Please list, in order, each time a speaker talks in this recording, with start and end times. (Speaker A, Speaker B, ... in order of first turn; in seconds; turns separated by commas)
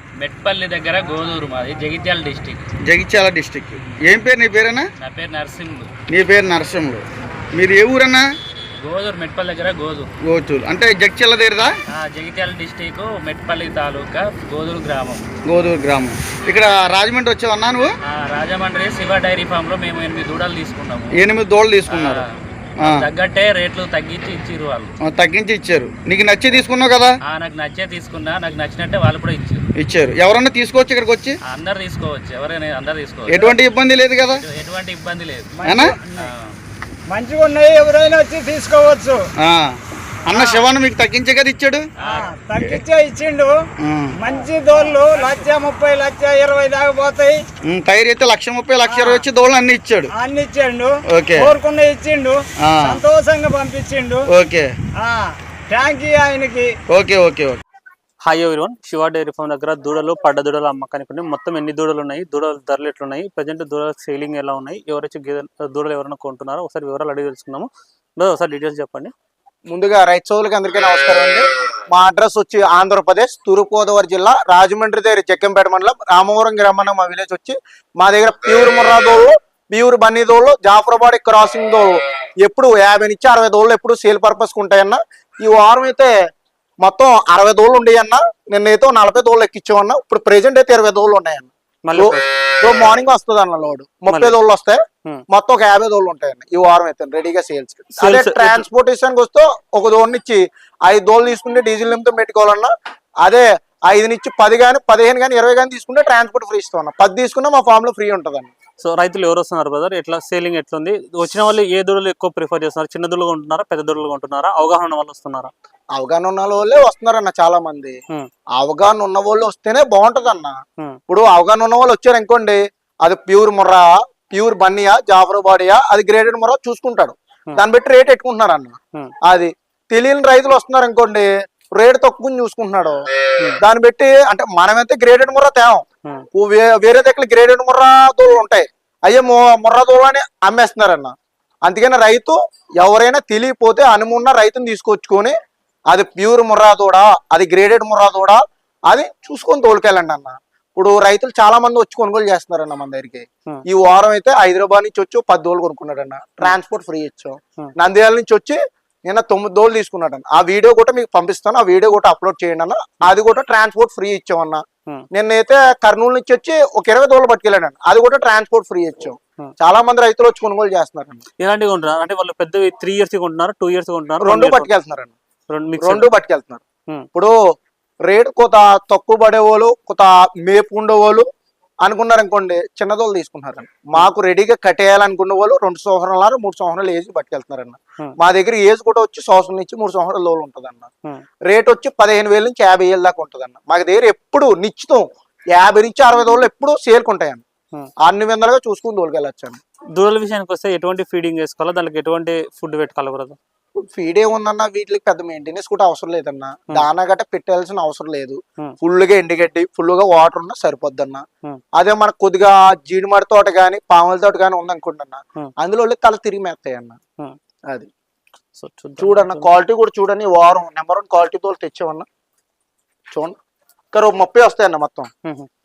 Speaker A: 0.2-2.7, Speaker B: 2.8-4.9, Speaker A: 5.0-5.9, Speaker B: 6.1-8.3, Speaker A: 8.8-10.1, Speaker B: 10.2-11.8, Speaker A: 11.9-15.3, Speaker B: 15.4-17.9, Speaker A: 18.0-21.2, Speaker B: 21.1-22.2, Speaker A: 21.9-22.3, Speaker A: 22.8-24.9, Speaker B: 25.1-27.2, Speaker A: 27.3-29.7, Speaker B: 29.8-31.4, Speaker A: 31.5-33.6, Speaker B: 33.3-34.4, Speaker A: 34.3-35.6, Speaker C: 35.6-36.3, Speaker B: 35.6-36.0, Speaker A: 36.2-36.5, Speaker C: 37.1-39.2, Speaker B: 39.4-41.9, Speaker C: 40.3-40.6, Speaker A: 42.0-42.3, Speaker C: 42.0-43.6, Speaker B: 43.8-44.1, Speaker C: 44.2-47.5, Speaker B: 47.6-50.1, Speaker C: 48.9-49.3, Speaker C: 50.1-54.3, Speaker B: 51.1-51.6, Speaker B: 52.6-53.0, Speaker B: 54.3-54.7, Speaker C: 55.0-56.7, Speaker B: 56.9-57.6, Speaker D: 58.2-69.1, Speaker E: 69.7-86.2, Speaker E: 86.8-108.5, Speaker D: 91.8-92.3, Speaker D: 94.1-94.4, Speaker D: 98.0-98.7, Speaker D: 108.8-115.5, Speaker E: 115.9-118.0, Speaker E: 118.6-120.6, Speaker E: 121.1-133.0, Speaker E: 133.6-145.3, Speaker E: 145.9-171.2, Speaker D: 171.4-174.7, Speaker E: 174.2-175.1, Speaker D: 175.5-176.1, Speaker E: 175.8-176.6, Speaker E: 178.1-181.2, Speaker E: 181.8-190.9, Speaker E: 191.5-197.4, Speaker E: 198.0-199.6, Speaker D: 199.9-203.4, Speaker E: 203.8-211.2, Speaker E: 211.8-217.0, Speaker D: 218.6-219.5, Speaker E: 219.0-222.1, Speaker E: 223.9-225.1